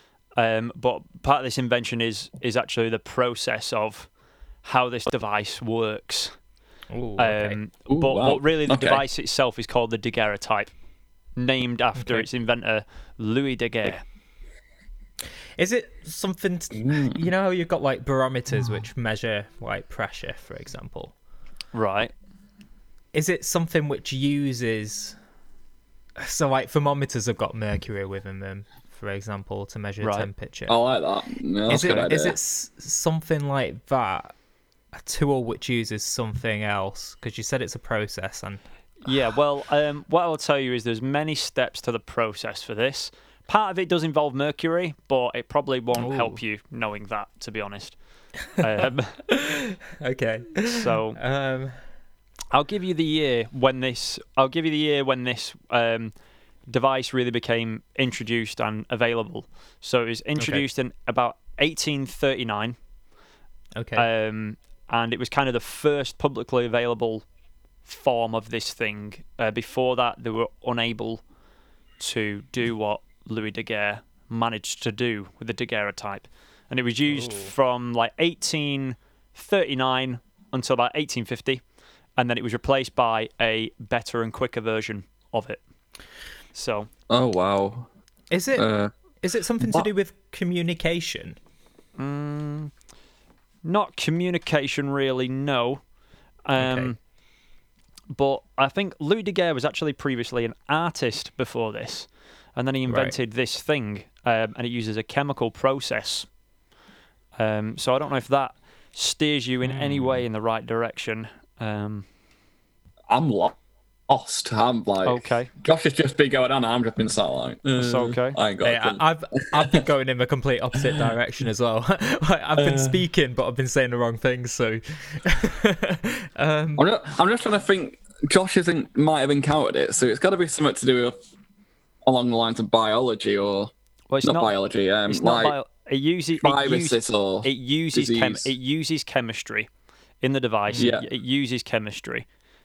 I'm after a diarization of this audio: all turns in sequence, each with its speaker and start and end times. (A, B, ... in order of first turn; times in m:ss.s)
0:00.4-0:04.1 A
0:04.6-0:06.3 A
0:06.9-0:07.6 B
0:07.2-0:10.7 A
0:07.9-0:09.0 C
0:11.4-0:14.0 A
0:12.0-0:12.3 B
0:15.6-0:21.1 B
0:16.7-0:17.3 C
0:21.7-0:22.1 A
0:23.1-0:25.2 B
0:26.2-0:30.8 B
0:30.0-0:30.3 A
0:30.7-0:32.4 C
0:31.7-0:34.3 B
0:31.7-0:32.1 A
0:34.9-0:38.6 B
0:39.0-0:48.0 A
0:46.0-0:46.4 B
0:48.6-0:49.2 A
0:49.3-0:51.8 B
0:50.7-0:51.2 A
0:52.5-0:56.1 A
0:56.7-1:02.8 A
1:00.4-1:00.6 B
1:03.8-1:04.1 B
1:04.0-1:07.2 A
1:07.9-1:11.2 A
1:12.0-1:21.6 A
1:17.1-1:17.5 B
1:22.2-1:25.6 A
1:26.5-1:26.9 A
1:27.1-1:27.9 C
1:28.3-1:28.7 B
1:28.6-1:28.9 C
1:29.2-1:31.4 B
1:29.6-1:29.9 C
1:32.0-1:32.7 A
1:33.6-1:35.8 A
1:36.5-1:37.0 A
1:36.6-1:36.9 B
1:38.1-1:46.3 A
1:42.9-1:43.2 B
1:47.4-1:52.1 A
1:49.6-1:50.3 B
1:53.1-1:53.6 C
1:54.1-1:59.8 C
1:55.1-1:55.5 A
1:57.8-1:58.4 A
1:58.6-2:06.9 B
2:02.6-2:03.0 C
2:06.8-2:11.2 C
2:12.0-2:13.7 C
2:14.1-2:14.5 A
2:14.2-2:15.6 C
2:15.1-2:19.7 A
2:16.4-2:18.5 C
2:20.2-2:22.3 A
2:20.8-2:21.1 C